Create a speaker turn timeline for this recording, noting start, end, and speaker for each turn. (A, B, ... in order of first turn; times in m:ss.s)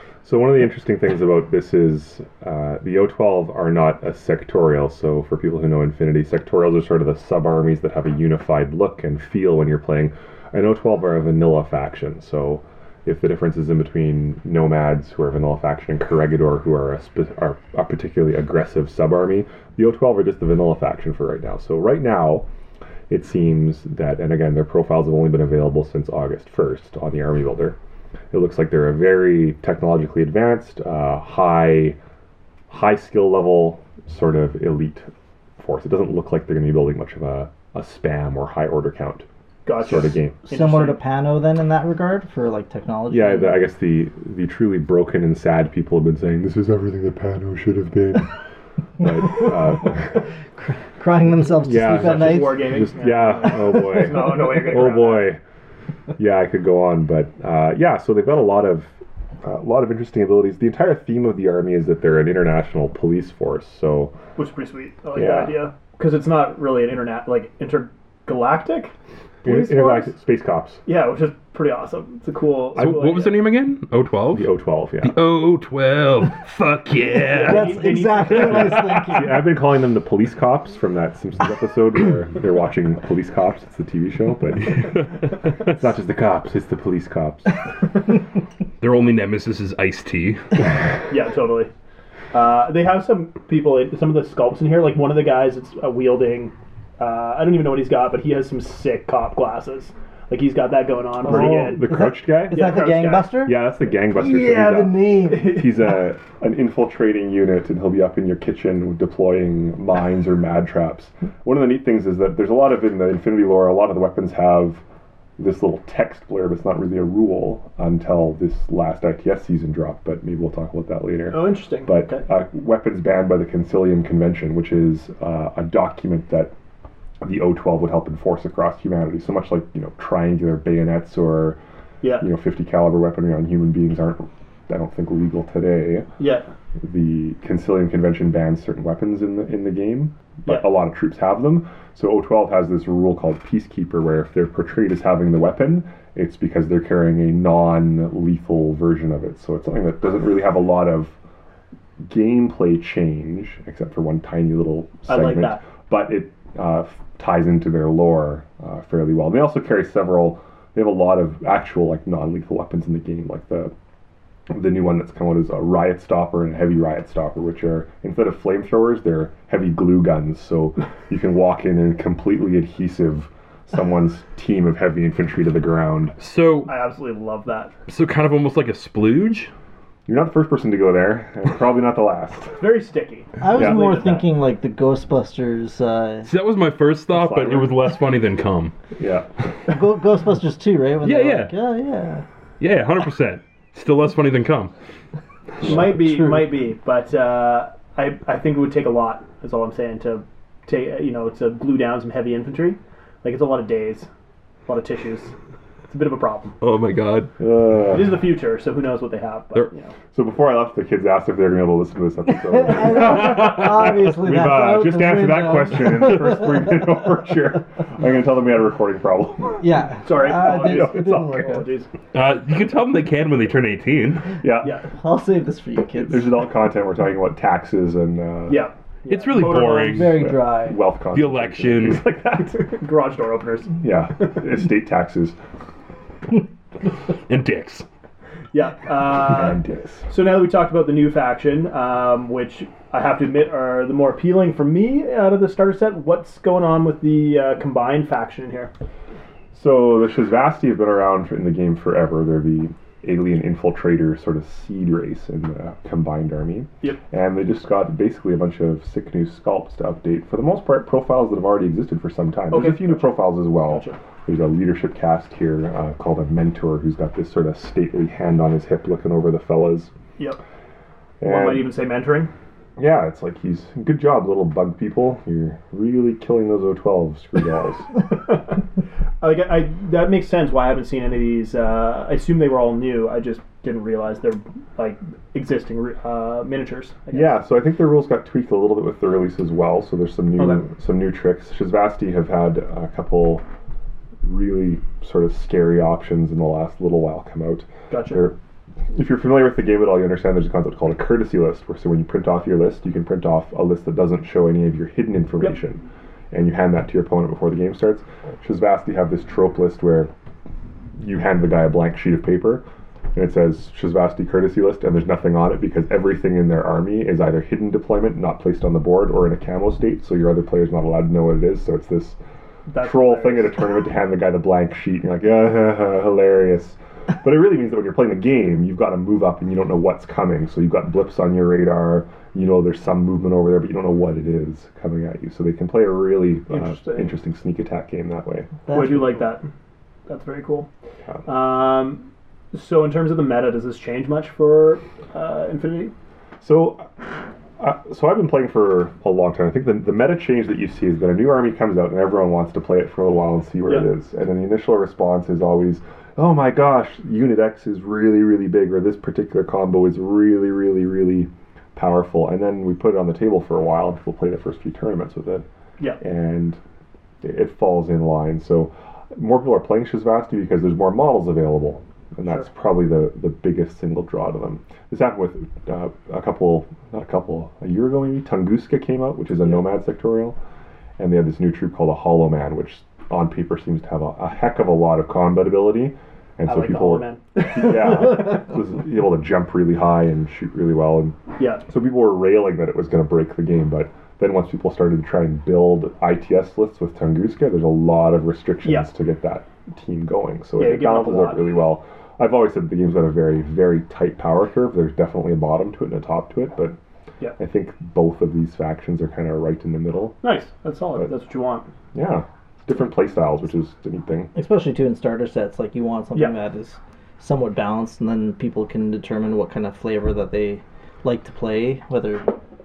0:00.2-0:22.5 A
0:23.1-0:27.8 A
0:28.3-0:32.0 A
0:32.7-0:40.5 A
0:39.6-0:41.0 B
0:40.5-0:43.6 C
0:43.1-0:48.4 A
0:49.0-0:50.3 A
0:50.6-0:52.9 C
0:51.5-0:55.4 A
0:51.8-0:55.4 B
0:56.2-1:04.2 A
1:04.4-1:08.9 B
1:05.1-1:05.7 A
1:09.4-1:10.2 B
1:09.4-1:10.8 A
1:10.9-1:13.4 B
1:12.8-1:17.9 D
1:14.3-1:15.2 A
1:17.3-1:19.0 B
1:17.3-1:19.4 C
1:18.4-1:27.6 A
1:28.8-1:30.6 D
1:31.1-1:31.7 B
1:32.3-1:42.0 B
1:41.2-1:45.7 C
1:41.2-1:42.8 A
1:42.5-1:43.4 B
1:43.4-1:54.8 A
1:45.3-1:45.6 B
1:55.4-2:06.5 A
2:01.3-2:02.3 B
2:07.2-2:11.6 A
2:12.0-2:12.3 B
2:12.2-2:16.1 A
2:16.2-2:16.5 B
2:16.8-2:31.1 A
2:32.0-2:43.7 A
2:35.1-2:35.7 B
2:44.5-2:56.2 A
2:56.2-2:56.7 D
2:56.7-2:57.7 B
2:57.9-2:59.5 D
3:00.0-3:02.6 A
3:02.6-3:04.3 B
3:03.4-3:06.3 C
3:03.5-3:04.0 A
3:06.3-3:08.8 D
3:07.1-3:07.8 A
3:09.0-3:09.3 A
3:09.7-3:12.2 C
3:11.0-3:11.5 D
3:12.6-3:14.7 D
3:15.6-3:24.1 B
3:15.8-3:16.5 C
3:24.7-3:25.3 B
3:25.9-3:26.6 B
3:26.6-3:27.3 D
3:27.4-3:28.2 A
3:27.9-3:29.9 B
3:30.1-3:39.6 A
3:32.4-3:36.5 C
3:33.2-3:33.6 D
3:39.6-3:41.7 C
3:40.0-3:41.9 B
3:40.4-3:41.4 A
3:42.1-3:44.3 D
3:44.3-3:44.8 A
3:44.6-3:44.9 B
3:45.0-3:46.3 C
3:46.0-3:48.7 A
3:48.5-3:50.1 B
3:49.1-3:50.2 D
3:49.4-3:50.8 C
3:50.0-3:52.8 A
3:51.1-3:52.0 D
3:52.5-3:53.8 B
3:53.8-3:55.4 A
3:57.3-3:57.8 D
3:58.5-4:08.7 B
3:59.1-4:00.1 A
4:09.5-4:29.9 A
4:22.5-4:24.0 B
4:31.2-4:31.7 A
4:31.2-4:32.3 B
4:32.8-4:37.9 A
4:38.1-4:38.5 B
4:39.2-4:47.4 B
4:47.1-4:53.4 A
4:50.4-4:50.6 B
4:54.2-4:58.3 A
4:57.9-4:58.2 B
4:58.9-5:10.1 A
5:11.0-5:22.2 A
5:22.7-5:23.7 B
5:22.8-5:38.5 A
5:36.5-5:37.1 B
5:38.7-5:39.3 C
5:38.7-5:39.5 B
5:40.1-5:40.7 B
5:41.3-5:45.9 B
5:46.4-5:46.9 A
5:47.6-6:05.4 A
6:06.0-6:06.6 A
6:07.2-6:20.4 A
6:21.0-6:46.8 A
6:26.5-6:28.4 B
6:31.4-6:31.7 B
6:38.6-6:38.9 B
6:40.6-6:41.5 B
6:47.4-6:50.2 A
6:50.2-6:51.7 B
6:51.9-6:54.3 A
6:54.3-7:02.3 C